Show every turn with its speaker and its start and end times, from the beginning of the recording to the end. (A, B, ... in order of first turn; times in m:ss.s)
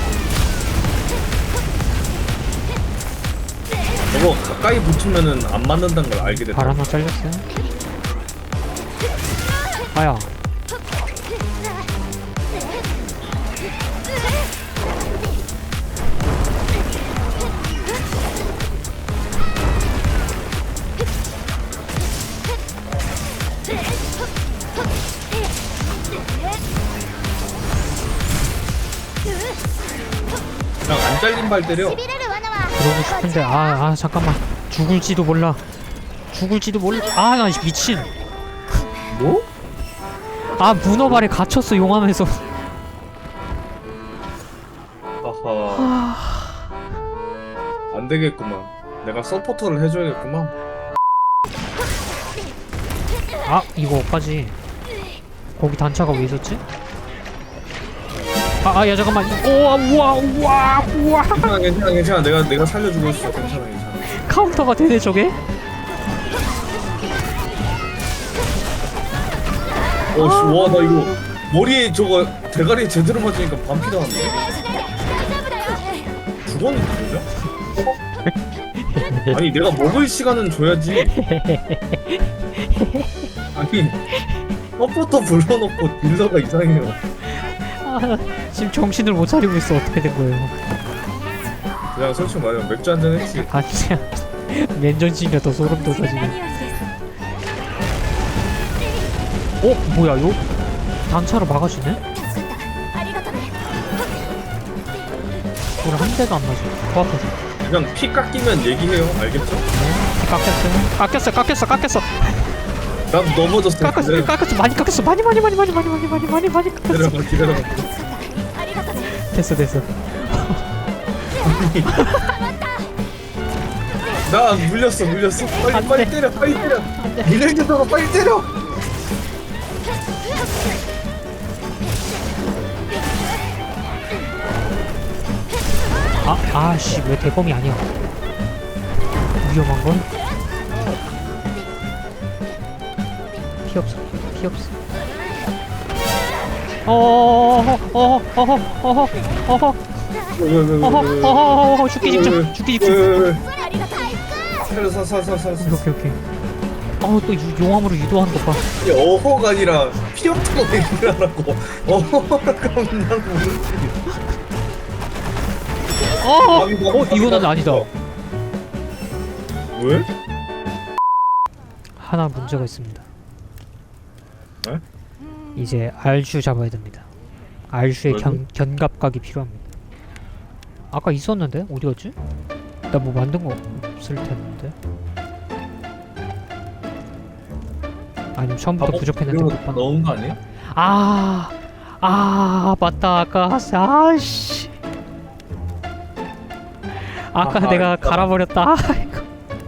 0:04.1-0:06.9 A
0:06.2-0:07.5 B
0:09.9-0:10.3 B
0:30.9-0:32.1 A
0:32.6-0:35.6 B
0:36.3-0:38.1 B
0:39.1-0:39.5 A
0:40.6-0:42.5 B
0:45.2-0:46.0 A
0:45.7-0:46.7 B
0:47.9-0:50.5 A
0:53.4-0:54.6 B
0:55.6-0:56.6 B
0:58.6-1:01.5 B
1:01.3-1:04.1 A
1:04.1-1:05.4 B
1:10.1-1:14.6 A
1:10.2-1:11.2 B
1:16.4-1:17.3 A
1:18.3-1:19.7 B
1:19.3-1:21.2 A
1:21.0-1:23.3 B
1:23.6-1:24.0 A
1:24.2-1:24.4 B
1:24.8-1:27.0 A
1:27.4-1:30.6 B
1:32.0-1:33.5 A
1:33.4-1:36.5 B
1:39.6-1:40.4 B
1:41.1-1:42.0 B
1:45.8-1:47.4 B
1:47.6-1:49.6 A
1:49.7-1:52.5 B
1:53.1-1:54.3 A
1:53.8-1:57.7 B
1:56.9-1:57.8 A
1:59.0-2:00.6 B
2:01.4-2:02.0 A
2:01.9-2:02.3 B
2:04.3-2:08.5 A
2:05.7-2:07.3 B
2:16.2-2:17.9 B
2:19.4-2:20.1 B
2:23.6-2:24.8 B
2:26.9-2:29.8 B
2:30.4-2:33.4 A
2:30.8-2:33.2 B
2:34.6-2:35.8 A
2:35.6-2:36.2 B
2:37.0-2:38.7 B
2:38.8-2:44.0 A
2:46.2-2:47.9 B
2:46.5-2:47.9 A
2:49.8-2:50.1 A
2:52.0-2:53.0 B
2:55.6-2:57.1 B
2:57.7-2:59.6 B
2:58.1-2:58.4 A
3:00.9-3:02.2 B
3:02.9-3:04.8 B
3:08.4-3:10.0 B
3:08.8-3:10.4 A
3:10.6-3:14.7 B
3:17.0-3:19.3 B
3:17.4-3:18.3 A